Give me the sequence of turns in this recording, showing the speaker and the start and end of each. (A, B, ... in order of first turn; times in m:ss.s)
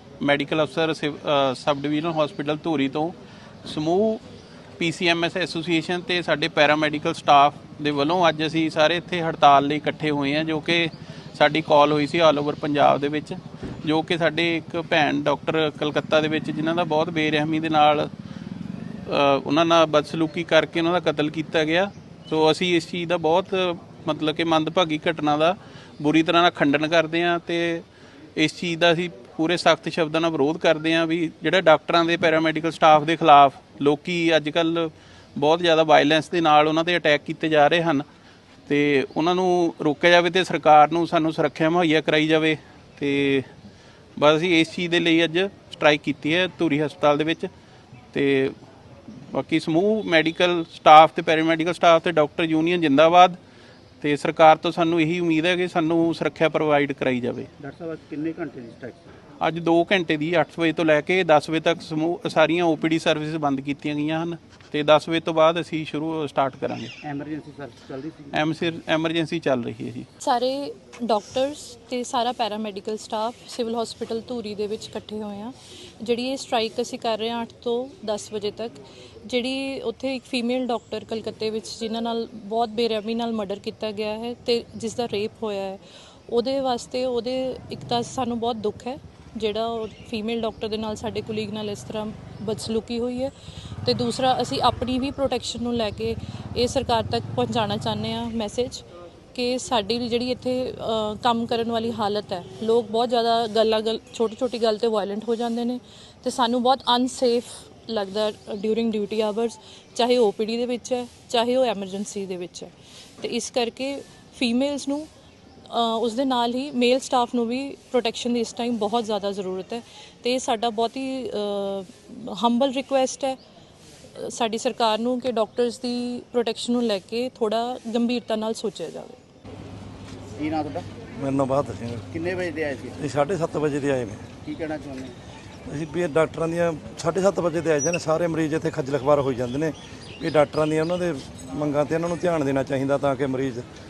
0:00.2-0:04.2 A
0:04.8-0:18.1 A
0:19.1-0:27.8 A
0:28.4-0:38.0 A
0:38.7-0:43.5 A
0:44.2-0:47.5 A
0:48.1-0:48.6 A
0:49.3-0:53.4 A
0:54.0-0:57.5 A
0:57.6-0:59.0 B
0:59.4-1:06.9 A
1:07.0-1:08.5 B
1:08.3-1:10.1 A
1:10.2-1:33.3 C
1:33.8-1:55.1 C
1:55.7-2:03.4 C
2:04.2-2:09.2 C
2:10.4-2:10.9 B
2:11.2-2:12.1 D
2:12.1-2:13.0 B
2:13.0-2:14.3 D
2:14.4-2:15.2 B
2:15.7-2:23.7 D